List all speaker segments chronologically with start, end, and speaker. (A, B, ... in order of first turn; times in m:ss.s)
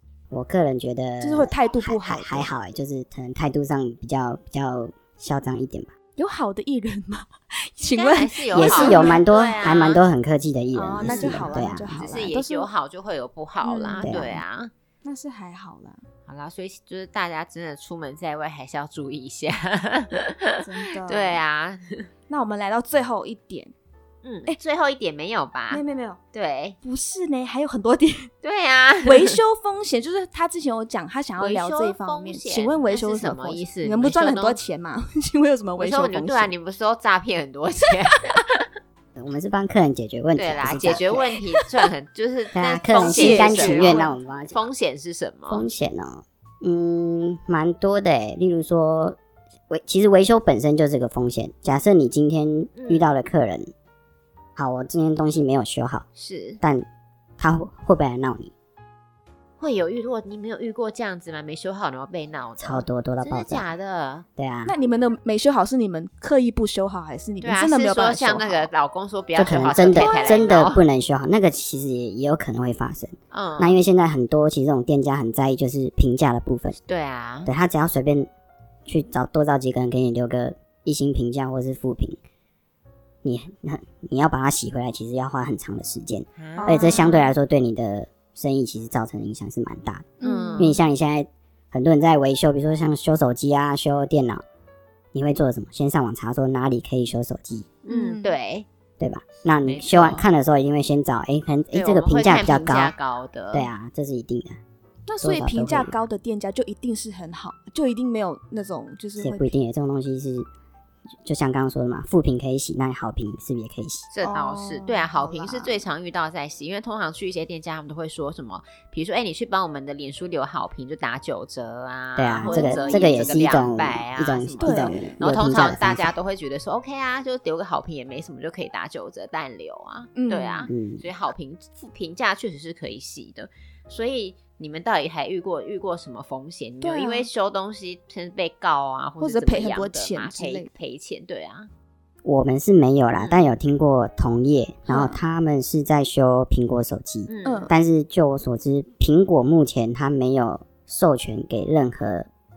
0:00.3-0:05.9 A
0:01.2-0:02.5 B
0:06.2-0:09.8 B
0:07.8-0:10.0 C
0:08.5-0:12.0 A
0:10.7-0:12.7 B
0:11.0-0:14.7 C
0:13.6-0:14.4 B
0:14.0-0:14.3 A
0:15.0-0:16.0 B
0:16.3-0:22.1 C
0:20.6-0:21.4 B
0:22.3-0:23.7 B
0:24.2-0:25.8 C
0:25.7-0:26.2 B
0:26.3-0:26.8 C
0:26.8-0:28.3 B
0:28.4-0:29.4 C
0:29.0-0:36.5 B
0:31.4-0:34.6 C
0:35.8-0:38.6 C
0:39.1-0:41.3 A
0:40.4-0:45.6 C
0:42.5-0:44.7 A
0:43.0-0:44.1 B
0:45.5-0:49.2 A
0:49.7-0:53.7 A
0:52.7-0:53.1 C
0:54.6-0:56.0 A
0:56.2-0:56.6 C
0:56.6-0:56.8 A
0:57.4-0:58.5 A
0:59.6-1:04.2 C
1:02.6-1:03.7 A
1:04.4-1:04.7 A
1:04.6-1:08.7 B
1:07.4-1:10.8 C
1:09.3-1:16.8 A
1:10.0-1:10.4 B
1:13.3-1:13.8 C
1:16.9-1:17.5 C
1:17.4-1:18.3 A
1:18.8-1:22.2 A
1:23.2-1:34.4 A
1:26.4-1:27.0 C
1:26.6-1:27.3 B
1:30.2-1:30.8 B
1:30.2-1:30.8 C
1:35.1-1:37.7 A
1:37.8-1:38.6 C
1:37.9-1:38.4 B
1:39.0-1:42.9 A
1:39.6-1:40.3 C
1:41.7-1:43.7 C
1:43.5-1:44.6 A
1:45.1-1:49.5 B
1:45.2-1:45.9 A
1:49.2-1:50.5 A
1:51.2-1:54.1 A
1:54.1-2:21.7 C
1:54.2-1:55.8 B
2:02.2-2:06.1 A
2:02.4-2:03.4 B
2:04.6-2:05.2 B
2:10.1-2:10.7 B
2:10.7-2:11.0 A
2:16.8-2:17.3 B
2:19.2-2:20.7 B
2:22.2-2:32.3 A
2:23.1-2:23.4 C
2:24.9-2:25.2 B
2:27.3-2:27.7 C
2:27.4-2:27.7 B